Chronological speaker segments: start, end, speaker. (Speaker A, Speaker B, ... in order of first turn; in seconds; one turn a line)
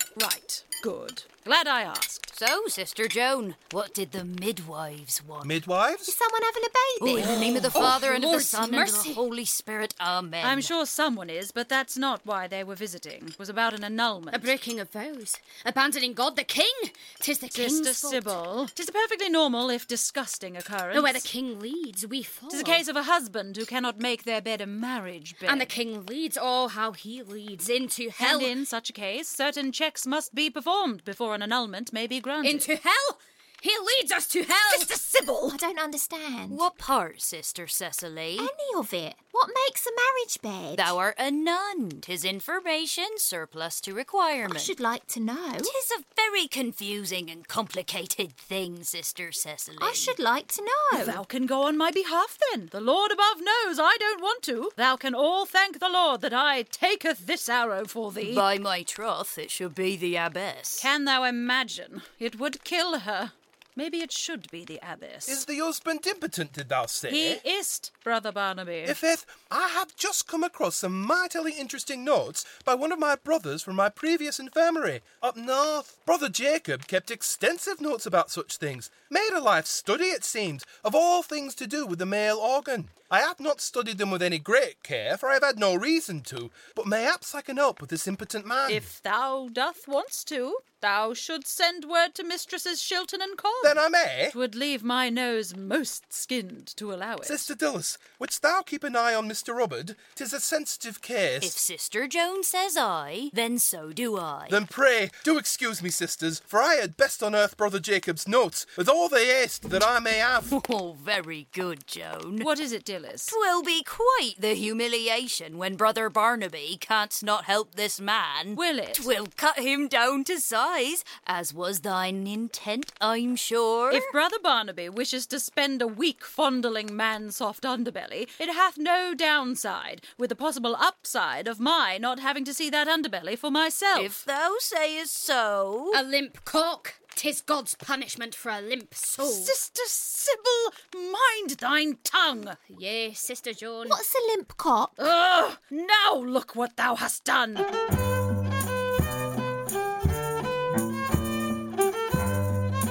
Speaker A: 0.1-2.3
Speaker B: 2.3-5.5
Speaker C: 5.4-6.1
Speaker D: 6.1-7.8
Speaker B: 7.0-10.7
Speaker E: 7.3-9.2
Speaker A: 10.4-14.5
Speaker E: 14.3-18.3
Speaker A: 17.5-21.3
Speaker E: 20.9-22.8
Speaker A: 22.5-25.7
Speaker E: 25.4-28.6
Speaker A: 28.2-32.7
Speaker E: 32.4-34.9
Speaker A: 34.7-35.6
Speaker D: 35.5-36.6
Speaker B: 36.5-38.5
Speaker D: 38.4-41.0
Speaker B: 40.8-44.7
Speaker D: 44.4-45.7
Speaker B: 45.6-50.1
Speaker D: 49.8-51.2
Speaker A: 50.9-58.4
Speaker B: 58.2-60.9
Speaker A: 60.8-65.4
Speaker C: 65.2-67.4
Speaker A: 67.1-69.0
Speaker C: 68.8-88.9
Speaker A: 88.7-93.8
Speaker C: 93.6-94.3
Speaker A: 94.3-97.5
Speaker C: 97.2-101.6
Speaker B: 101.4-104.6
Speaker C: 104.5-110.5
Speaker B: 110.5-112.5
Speaker A: 112.4-113.4
Speaker B: 113.3-124.1
Speaker A: 118.5-119.1
Speaker A: 123.9-134.2
Speaker B: 133.9-136.0
Speaker E: 135.9-139.6
Speaker A: 139.2-142.6
Speaker E: 142.7-144.0
Speaker D: 143.8-144.9
Speaker A: 145.0-147.7